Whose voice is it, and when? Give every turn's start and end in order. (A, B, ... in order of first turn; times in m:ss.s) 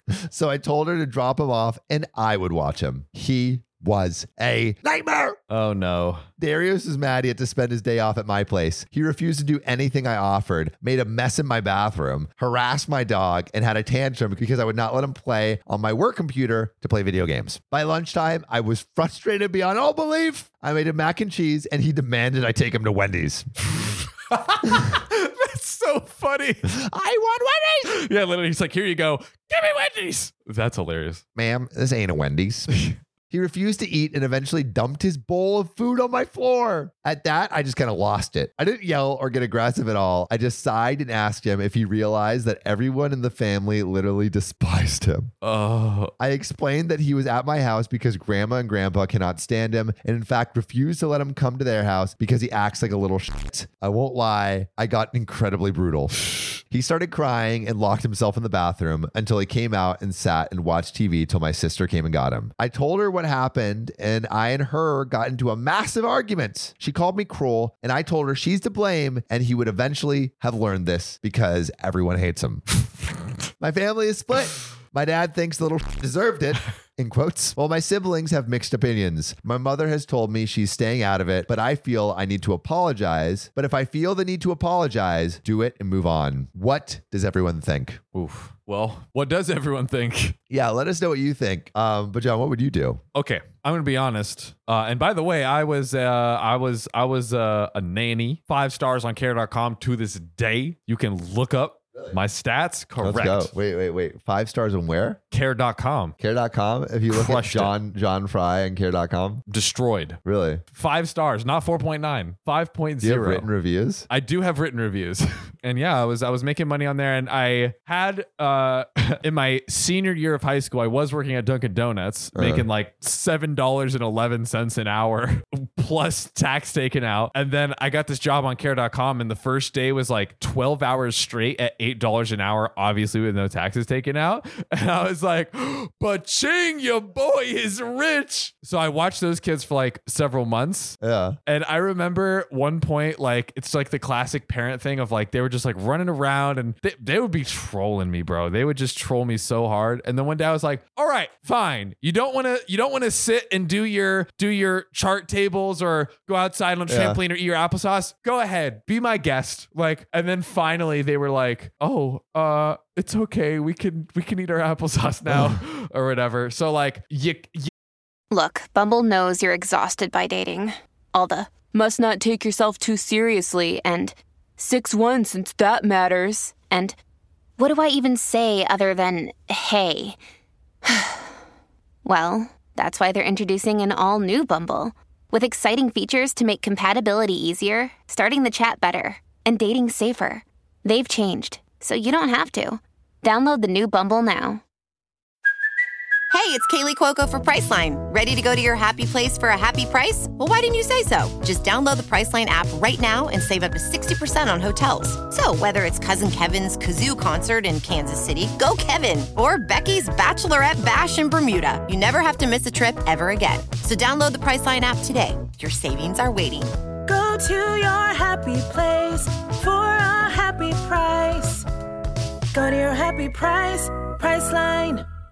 0:00.3-0:05.4 A
0:05.5-0:06.2 B
0:06.4-0:23.5 A
0:23.6-0:26.7 B
0:26.7-0:27.9 A
0:27.9-0:31.2 B
0:31.4-0:32.7 A
0:32.7-0:33.0 B
0:33.3-0:45.3 A
0:45.4-0:46.1 B
0:46.2-1:12.8 A
1:13.6-1:28.0 A
1:28.1-1:30.4 B
1:30.5-1:33.0 A
1:33.1-1:43.5 B
1:43.0-1:45.2 A
1:45.3-1:46.2 B
1:46.2-1:49.4 A
1:47.1-1:47.8 B
1:49.5-1:50.2 B
1:50.2-1:50.6 A
1:50.7-1:53.5 B
1:53.0-1:54.1 A
1:54.1-2:21.0 B
2:02.3-2:02.6 A
2:21.0-2:21.4 A
2:21.5-2:47.7 B
2:36.9-2:37.2 A
2:48.3-2:57.0 C
2:57.6-3:00.2 C
3:00.9-3:01.3 C
3:02.0-3:14.6 C
3:16.3-3:36.7 D
3:37.1-3:41.7 E
3:42.5-3:45.0 E